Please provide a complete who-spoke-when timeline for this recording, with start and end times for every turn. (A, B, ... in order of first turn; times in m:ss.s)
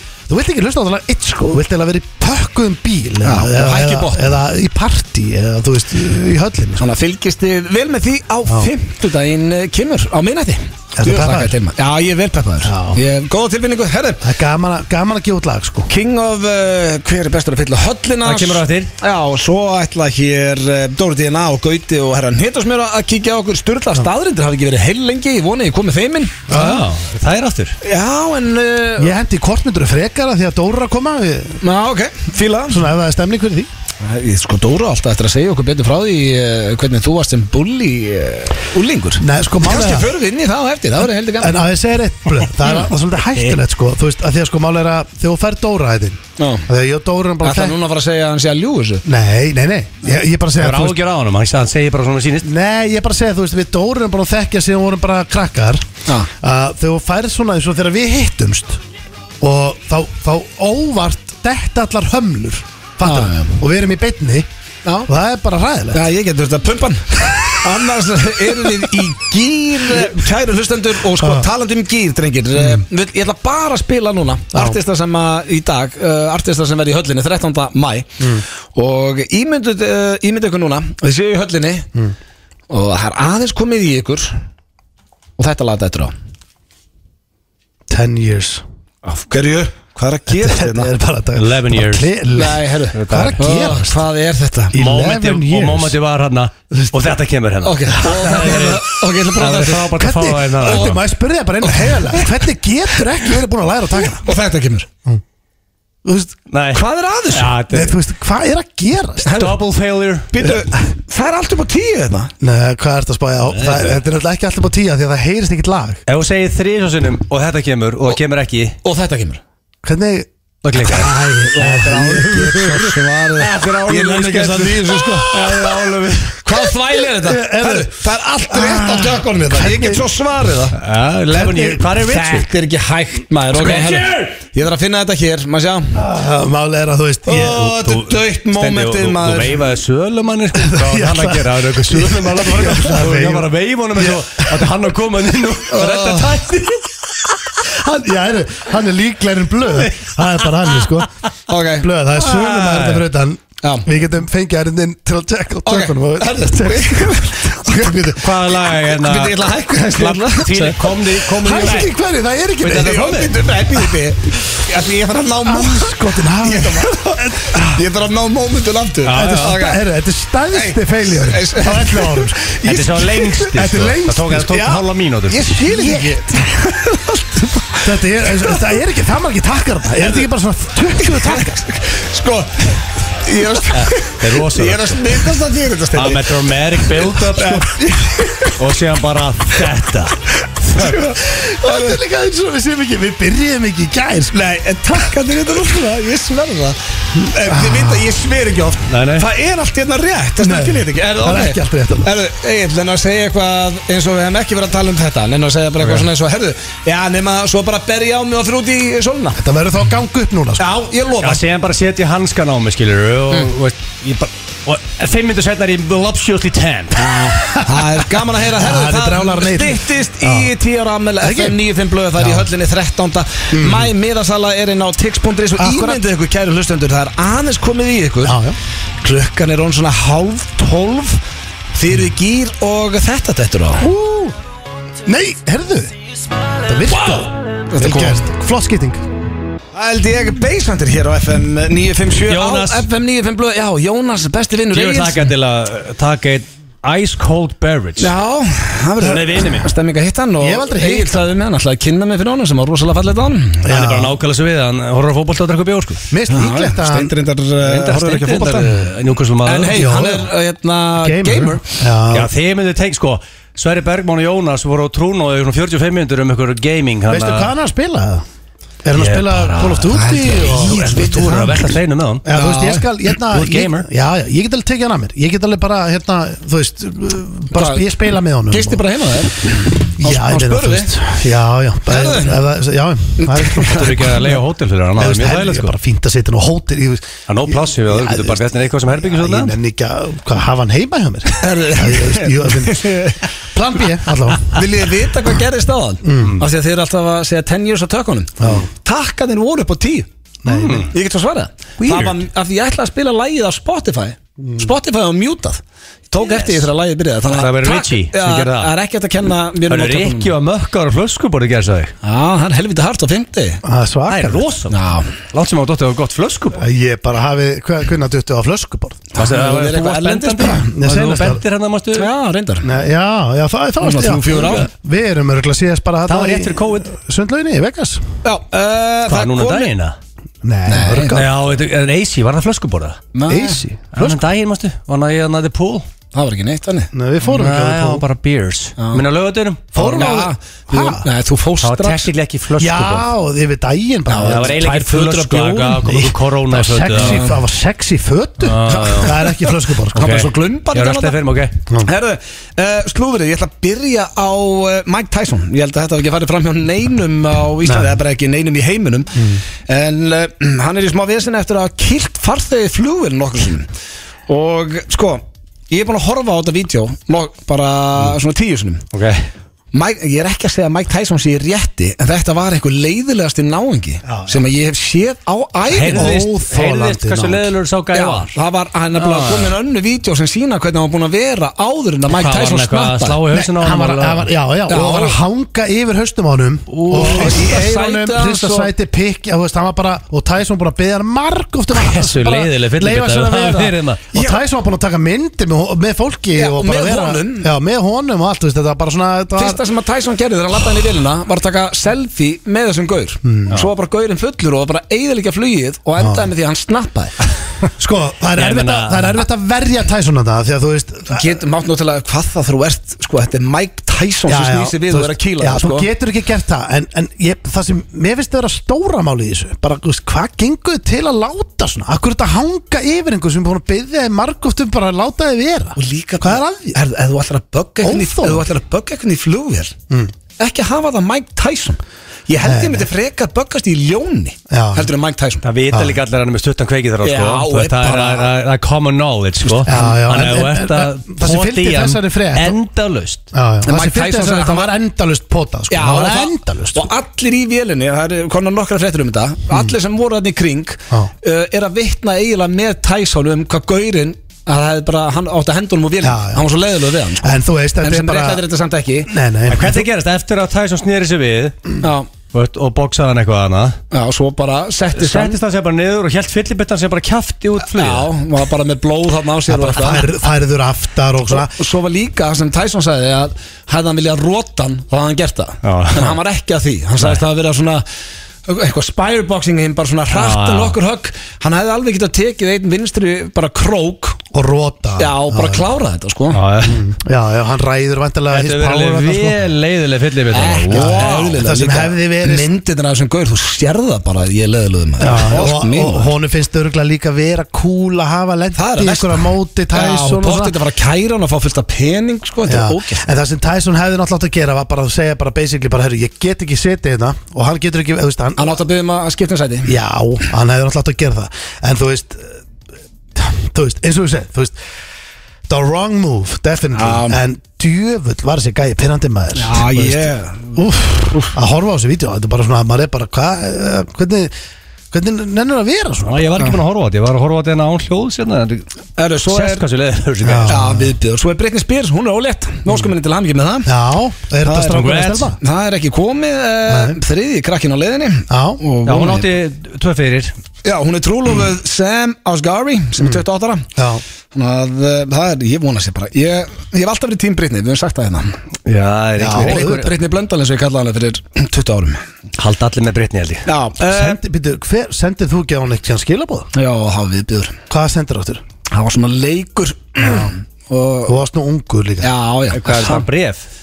0:00.3-0:06.8 A
0:03.2-0:04.4 B
0:06.8-0:14.2 B
0:11.0-0:11.5 A
0:12.6-0:13.0 A
0:14.2-0:15.9 A
0:15.9-0:26.5 B
0:18.2-0:18.9 C
0:26.5-0:26.8 A
0:26.5-0:27.8 C
0:27.8-0:29.1 B
0:29.0-0:31.6 A
0:31.6-0:32.8 B
0:32.7-0:33.7 A
0:34.0-0:41.6 B
0:39.2-0:40.1 A
0:41.4-0:47.8 A
0:46.4-0:46.7 B
0:47.4-0:49.0 B
0:49.0-0:51.0 A
0:50.6-0:52.5 C
0:52.4-0:55.9 A
0:56.4-0:58.8 A
0:59.4-1:04.5 A
1:03.0-1:03.6 B
1:05.1-1:06.1 A
1:05.9-1:18.2 B
1:11.2-1:11.5 A
1:12.6-1:12.8 A
1:14.5-1:14.8 A
1:18.8-1:21.9 B
1:22.7-1:24.3 B
1:25.4-1:26.1 B
1:27.9-1:28.6 A
1:29.0-1:30.9 B
1:30.3-1:34.0 A
1:31.4-1:32.3 C
1:32.4-1:34.8 B
1:32.9-1:33.5 C
1:34.7-1:36.0 A
1:34.8-1:41.0 C
1:36.7-1:37.0 A
1:37.6-1:40.1 B
1:39.9-1:44.3 A
1:40.6-1:41.0 B
1:41.6-1:42.3 B
1:44.2-1:44.9 B
1:46.0-1:46.4 A
1:46.5-1:48.0 C
1:46.7-1:47.5 B
1:47.7-1:49.4 A
1:49.2-1:49.6 B
1:49.3-1:50.5 C
1:50.3-1:52.3 B
1:52.4-1:56.0 A
1:53.5-1:54.0 C
1:56.1-1:58.8 C
1:58.8-1:59.4 B
1:59.8-2:00.3 A
2:00.6-2:01.2 C
2:00.8-2:05.8 B
2:01.5-2:02.6 A
2:03.4-2:06.4 C
2:06.4-2:10.8 B
2:07.1-2:10.1 A
2:10.8-2:12.5 C
2:11.3-2:11.8 A
2:12.0-2:16.0 B
2:13.5-2:14.4 C
2:16.0-2:17.9 A
2:17.2-2:19.6 B
2:17.4-2:27.0 C
2:20.5-2:24.7 A
2:25.7-2:26.4 B
2:27.7-2:31.1 A
2:30.6-2:30.8 C
2:31.5-2:31.9 B
2:31.8-2:38.2 A
2:32.2-2:33.0 C
2:33.6-2:33.9 B
2:35.6-2:37.9 B
2:38.2-2:41.9 C
2:38.8-2:41.9 B
2:41.4-2:43.1 A
2:42.6-2:43.4 C
2:42.6-2:49.8 B
2:45.4-2:47.8 A
2:49.0-2:49.6 C
2:49.1-2:52.5 A
2:50.5-2:53.6 B
2:52.6-2:55.5 C
2:53.5-2:54.8 A
2:55.3-2:58.6 B
2:55.6-2:56.2 A
2:57.8-3:01.7 A
3:01.0-3:08.6 B
3:03.7-3:05.3 C
3:05.9-3:07.8 C
3:08.5-3:10.2 C
3:10.6-3:12.0 B
3:11.0-3:14.4 A
3:14.3-3:29.4 B
3:17.2-3:18.1 A
3:18.9-3:19.3 C
3:20.4-3:22.1 A
3:25.8-3:26.1 C
3:29.4-3:30.7 A
3:30.6-3:31.4 B
3:31.2-3:37.2 C
3:37.0-3:48.4 B
3:38.5-3:40.5 A
3:41.2-3:41.6 A
3:42.2-3:42.5 A
3:43.5-3:43.9 A
3:45.6-3:46.0 A
3:48.2-3:48.6 A
3:49.0-3:51.2 B
3:51.7-3:53.9 B
3:53.8-3:54.4 A
3:55.1-3:55.9 A
3:56.6-3:59.0 A
3:57.7-3:58.2 B
3:59.7-4:05.3 B
4:02.3-4:02.9 C
4:04.7-4:08.1 C
4:08.0-4:13.7 B
4:09.0-4:09.7 C
4:10.4-4:11.2 A
4:13.6-4:14.2 A
4:13.6-4:16.0 C
4:16.1-4:17.1 A
4:16.3-4:18.9 B
4:17.6-4:19.8 C
4:19.4-4:21.6 B
4:19.7-4:20.3 A
4:21.0-4:22.3 A
4:22.1-4:27.5 C
4:27.1-4:28.2 A
4:28.8-4:31.1 A
4:29.0-4:32.3 C
4:29.9-4:31.7 B
4:32.2-4:38.8 A
4:32.3-4:32.8 B
4:33.3-4:33.9 C
4:37.5-4:37.9 B
4:38.5-4:40.9 B
4:40.0-4:44.1 A
4:41.9-4:42.4 B
4:43.2-4:44.3 B
4:43.7-4:45.7 C
4:45.0-4:53.0 A
4:47.3-4:49.6 C
4:51.3-4:53.2 B
4:53.5-4:54.6 A
4:54.5-5:00.1 B
4:56.0-4:56.4 A
4:58.4-4:58.7 A
5:00.4-5:00.9 A
5:00.5-5:00.9 C
5:00.9-5:10.3 B
5:01.8-5:02.2 C
5:04.4-5:04.7 A
5:06.2-5:06.7 C
5:07.3-5:08.7 C
5:09.7-5:11.9 C
5:12.0-5:13.6 B
5:13.6-5:14.4 A
5:14.1-5:16.6 C
5:14.7-5:15.1 B
5:16.6-5:19.0 A
5:19.1-5:20.7 B
5:19.2-5:22.1 C
5:20.6-5:21.4 A
5:22.0-5:22.7 B
5:22.6-5:28.0 A
5:23.8-5:24.7 B
5:24.3-5:24.6 C
5:26.1-5:26.9 C
5:28.2-5:29.7 B
5:29.1-5:30.0 C
5:30.4-5:31.3 A
5:30.7-5:31.2 B
5:31.1-5:33.0 C
5:33.1-5:33.6 B
5:33.3-5:34.2 A
5:33.9-5:35.9 C
5:36.1-5:36.9 B
5:36.9-5:38.0 A
5:37.2-5:40.1 C
5:38.8-5:39.0 B
5:39.7-5:41.0 A
5:39.8-5:42.1 B
5:41.6-5:43.1 C
5:42.6-5:44.6 A
5:44.1-5:45.8 B
5:44.2-5:47.2 C
5:45.8-5:50.2 A
5:46.9-5:47.4 B
5:48.4-5:49.1 C
5:48.7-5:49.1 B
5:49.9-5:51.6 C
5:50.0-5:51.2 B
5:51.8-6:03.7 B
5:57.6-5:58.0 A
5:59.2-5:59.4 A
6:04.3-6:08.8 B
6:08.9-6:09.3 C
6:09.7-6:16.2 B
6:14.0-6:14.5 A
6:15.7-6:18.4 C
6:15.9-6:17.5 A
6:17.9-6:23.2 B
6:19.0-6:19.5 C
6:22.1-6:24.3 C
6:23.3-6:39.6 A
6:24.7-6:25.2 B
6:26.8-6:27.5 C
6:26.8-6:28.7 B
6:31.7-6:34.0 C
6:34.1-6:34.4 B
6:36.4-6:37.5 B
6:39.4-6:47.2 B
6:43.2-6:43.6 A
6:46.0-6:46.3 A
6:47.8-6:51.4 A
6:48.4-6:49.2 C
6:51.1-6:55.9 B
6:54.3-7:06.8 A
7:05.8-7:09.8 B
7:07.8-7:08.5 A
7:10.4-7:15.4 B
7:12.4-7:12.9 A
7:14.5-7:14.9 A
7:15.4-7:23.2 C
7:15.7-7:16.0 A
7:17.0-7:18.3 B
7:19.4-7:19.9 B
7:19.6-7:22.6 A
7:23.3-7:26.9 A
7:23.6-7:24.7 B
7:25.7-7:39.1 B
7:36.0-7:36.5 A
7:37.2-7:38.4 A
7:39.1-7:39.9 A
7:39.5-7:41.8 C
7:41.8-7:42.1 B
7:42.3-7:43.8 C
7:43.9-7:45.4 B
7:44.9-7:48.1 C
7:47.6-7:50.1 B
7:49.5-7:51.6 A
7:51.3-7:57.8 B
7:55.6-7:56.2 C
7:58.5-8:04.2 B
8:00.1-8:00.8 C
8:04.3-8:05.6 A
8:05.0-8:06.4 B
8:06.3-8:06.8 C
8:06.6-8:09.4 A
8:08.3-8:11.3 C
8:10.3-8:16.1 B
8:10.7-8:12.5 A
8:15.0-8:20.6 A
8:18.6-8:23.0 B
8:22.5-8:28.6 A
8:28.4-8:29.7 B
8:29.7-8:32.4 A
8:33.2-8:34.6 A
8:35.5-8:44.3 A
8:36.7-8:37.2 B
8:39.4-8:40.6 B
8:44.9-8:46.5 A
8:46.0-8:48.7 C
8:49.0-8:49.6 B
8:49.2-8:50.6 C
8:50.2-8:50.9 A
8:50.5-8:53.7 B
8:53.7-8:55.4 A
8:54.4-8:54.9 B
8:54.7-8:55.3 C
8:55.4-8:59.3 B
8:56.7-8:57.0 A
8:58.3-8:58.6 A
8:58.9-9:00.3 C
9:00.6-9:03.7 B
9:03.8-9:04.0 A
9:04.3-9:08.4 B
9:08.7-9:09.9 C
9:09.2-9:09.8 A
9:09.3-9:12.0 B
9:12.4-9:13.5 C
9:13.5-9:14.2 B
9:13.8-9:16.5 A
9:16.5-9:17.6 B
9:17.7-9:18.4 A
9:18.7-9:21.2 B
9:21.1-9:22.1 A
9:22.0-9:23.1 B
9:22.5-9:23.4 C